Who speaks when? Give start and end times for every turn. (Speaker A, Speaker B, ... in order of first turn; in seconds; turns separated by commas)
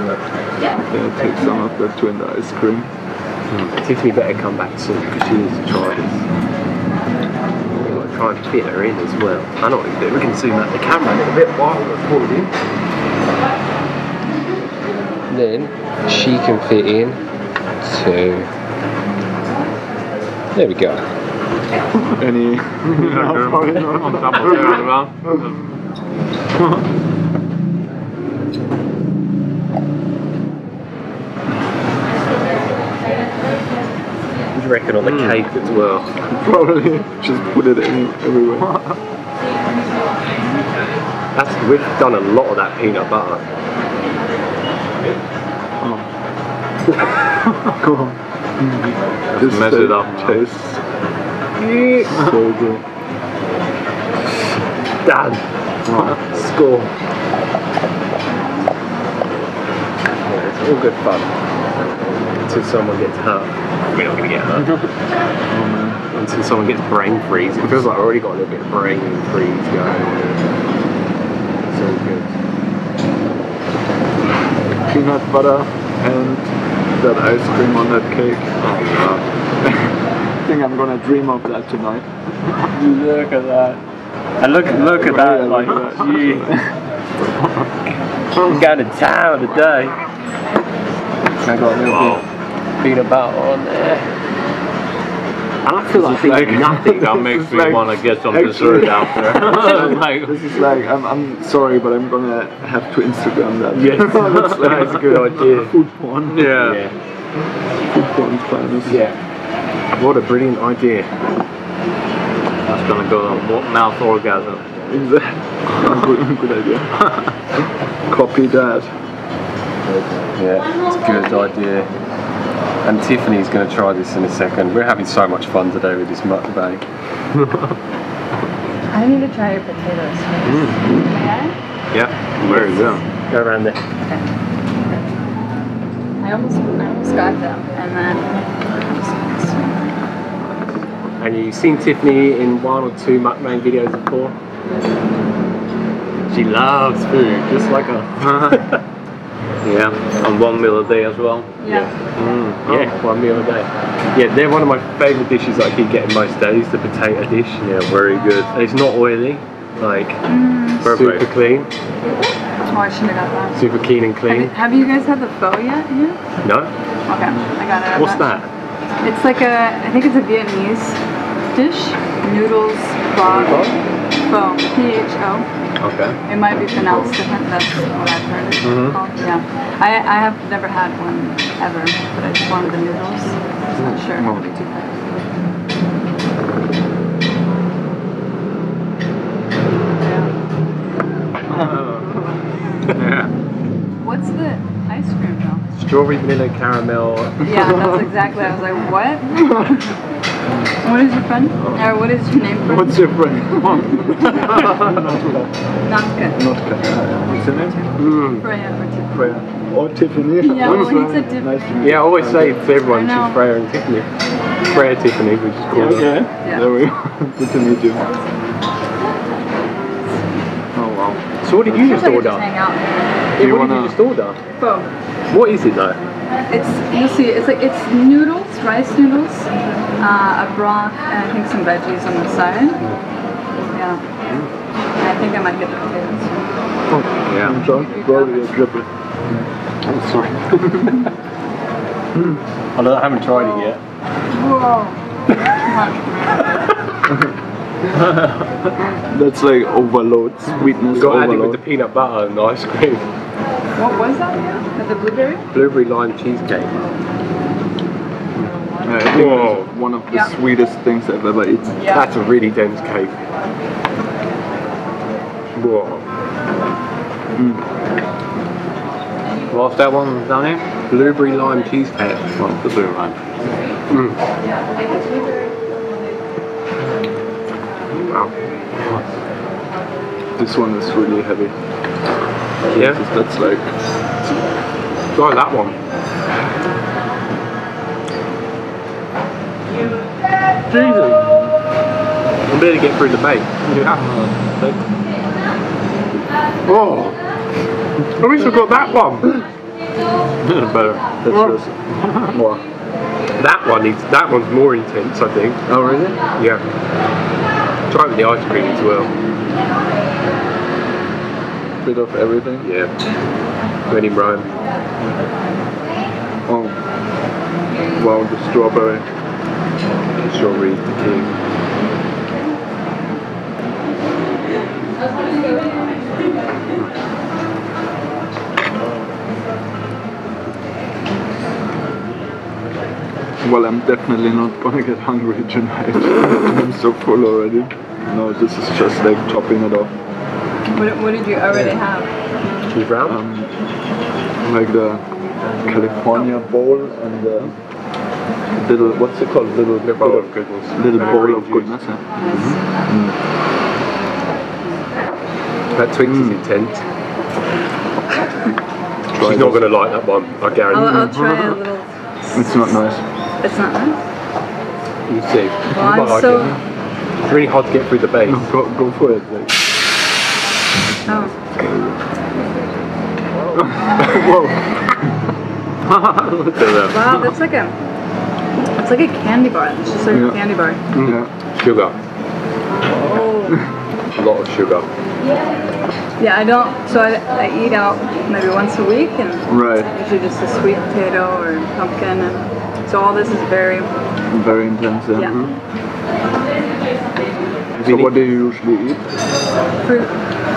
Speaker A: 0.9-2.9, Speaker B: 3.7-6.2, Speaker B: 7.8-12.5, Speaker B: 15.3-17.2, Speaker B: 17.8-18.5, Speaker B: 20.6-21.0, Speaker A: 22.0-24.8, Speaker C: 22.9-25.6, Speaker B: 24.3-25.1, Speaker B: 34.5-36.1, Speaker C: 35.0-35.4, Speaker A: 36.3-38.8, Speaker B: 41.4-43.4, Speaker A: 45.8-46.1, Speaker A: 47.7-48.8, Speaker C: 49.4-50.4, Speaker A: 49.4-50.8, Speaker D: 51.6-52.2, Speaker A: 52.1-52.8, Speaker B: 55.0-55.4, Speaker A: 55.9-56.2, Speaker B: 56.3-56.9, Speaker B: 60.3-64.7, Speaker C: 64.5-64.9, Speaker A: 65.5-66.0, Speaker B: 66.1-70.5, Speaker B: 71.7-72.3, Speaker A: 74.9-78.5, Speaker B: 78.6-79.2, Speaker A: 79.6-82.1, Speaker B: 82.9-83.8, Speaker C: 82.9-83.3, Speaker B: 84.5-86.2, Speaker C: 84.5-86.5, Speaker A: 84.7-86.7, Speaker B: 88.4-90.0, Speaker B: 91.4-92.2, Speaker A: 91.5-92.1, Speaker C: 91.8-92.2, Speaker B: 92.8-94.1, Speaker B: 95.6-97.4, Speaker A: 96.0-106.6, Speaker C: 96.4-100.6, Speaker B: 99.1-99.7, Speaker B: 103.7-105.7, Speaker C: 106.3-106.8, Speaker B: 106.5-107.0, Speaker A: 107.9-109.0, Speaker B: 108.8-109.2, Speaker B: 109.9-111.2, Speaker C: 112.7-114.7, Speaker A: 114.9-117.0, Speaker A: 118.1-118.9, Speaker B: 120.3-121.9, Speaker B: 122.8-126.8, Speaker D: 128.9-131.5, Speaker B: 130.5-130.8, Speaker C: 131.9-133.0, Speaker B: 132.4-133.8, Speaker D: 136.2-140.0, Speaker B: 141.2-144.4, Speaker B: 146.3-148.8, Speaker C: 148.2-148.6, Speaker C: 149.6-151.5, Speaker D: 151.6-151.9, Speaker B: 151.7-151.9, Speaker C: 152.2-153.0, Speaker B: 152.7-157.8, Speaker C: 157.7-158.9, Speaker B: 158.6-160.2, Speaker D: 160.3-161.0, Speaker B: 160.8-161.7, Speaker C: 160.9-161.3, Speaker D: 162.6-163.6, Speaker B: 163.6-164.5, Speaker D: 164.3-166.2, Speaker B: 166.4-166.7, Speaker D: 167.1-168.4, Speaker B: 167.9-168.5, Speaker D: 169.0-171.0, Speaker D: 171.5-173.8, Speaker D: 174.3-175.5, Speaker C: 175.8-176.2, Speaker D: 176.2-185.3, Speaker A: 176.8-177.1, Speaker C: 178.6-179.0, Speaker A: 184.2-184.4, Speaker D: 190.0-190.3, Speaker A: 191.5-191.8, Speaker D: 191.6-193.0, Speaker C: 191.6-192.0, Speaker C: 192.9-193.3, Speaker D: 194.0-195.7, Speaker B: 195.8-197.7, Speaker D: 197.4-200.0, Speaker D: 200.8-203.0, Speaker A: 201.6-201.8, Speaker A: 202.6-205.5, Speaker B: 203.7-204.8, Speaker D: 204.3-204.8, Speaker D: 205.8-206.4, Speaker A: 206.3-207.8, Speaker D: 207.6-209.4, Speaker A: 209.1-212.6, Speaker D: 210.4-212.0, Speaker B: 211.8-214.1, Speaker D: 212.7-213.4, Speaker B: 214.7-216.2, Speaker A: 215.7-218.1, Speaker C: 215.8-216.2, Speaker A: 220.7-222.2, Speaker B: 221.4-222.5, Speaker D: 221.8-223.1, Speaker B: 223.4-224.4, Speaker A: 223.4-224.0, Speaker D: 224.6-224.9, Speaker B: 225.3-226.0, Speaker D: 226.5-232.8, Speaker D: 233.7-234.0, Speaker D: 235.0-236.5, Speaker A: 236.9-238.9, Speaker C: 237.3-237.6, Speaker D: 237.7-238.5, Speaker B: 240.0-240.3, Speaker A: 240.6-241.0, Speaker A: 242.1-242.4, Speaker B: 242.8-243.8, Speaker D: 244.3-246.8, Speaker A: 249.0-251.6, Speaker B: 250.9-253.1, Speaker D: 253.8-255.4, Speaker B: 255.5-256.9, Speaker A: 258.8-261.8, Speaker B: 259.1-259.7, Speaker D: 261.8-262.1, Speaker B: 261.9-263.2, Speaker B: 265.6-266.1, Speaker A: 267.4-267.6, Speaker C: 269.5-270.7, Speaker B: 270.9-272.4, Speaker C: 272.4-273.2, Speaker B: 273.9-274.2, Speaker B: 278.1-278.3, Speaker A: 280.4-281.5, Speaker A: 282.7-283.7, Speaker B: 282.7-283.0, Speaker B: 285.2-285.8, Speaker C: 290.8-291.2, Speaker B: 292.5-293.8, Speaker C: 293.7-294.6, Speaker B: 296.7-297.2, Speaker B: 298.2-299.4, Speaker C: 300.5-300.9, Speaker B: 300.7-301.6, Speaker A: 301.2-301.7, Speaker A: 302.2-302.6, Speaker B: 303.4-305.6, Speaker A: 305.7-306.2, Speaker B: 306.4-306.6, Speaker B: 307.9-309.1, Speaker A: 311.8-312.7, Speaker B: 312.6-312.9, Speaker B: 313.9-314.5, Speaker A: 316.5-316.8, Speaker A: 318.0-319.0, Speaker B: 320.2-321.3, Speaker A: 333.4-339.9, Speaker D: 340.7-342.7, Speaker B: 342.7-343.2, Speaker A: 343.1-343.5, Speaker A: 344.4-345.0, Speaker A: 345.6-347.6, Speaker A: 348.6-352.0, Speaker B: 349.8-351.8, Speaker D: 352.2-352.6, Speaker A: 352.9-353.1, Speaker B: 355.7-356.8, Speaker A: 356.1-356.4, Speaker A: 359.1-359.6, Speaker B: 359.2-361.2, Speaker D: 360.7-362.8, Speaker A: 360.9-361.6, Speaker A: 362.4-363.0, Speaker D: 363.4-364.0, Speaker B: 365.1-366.6, Speaker D: 365.7-366.6, Speaker B: 367.2-368.5, Speaker A: 368.3-369.5, Speaker D: 371.1-371.4, Speaker A: 371.6-372.1, Speaker A: 373.6-375.1, Speaker C: 375.9-377.3, Speaker D: 376.9-377.8, Speaker D: 378.8-380.8, Speaker A: 380.1-380.4, Speaker A: 381.0-381.3, Speaker B: 381.0-382.0, Speaker D: 383.0-383.6, Speaker B: 384.1-384.9, Speaker D: 386.2-393.9, Speaker A: 389.5-389.9, Speaker A: 394.3-395.4, Speaker B: 397.8-398.1, Speaker A: 397.8-399.1, Speaker D: 399.8-400.2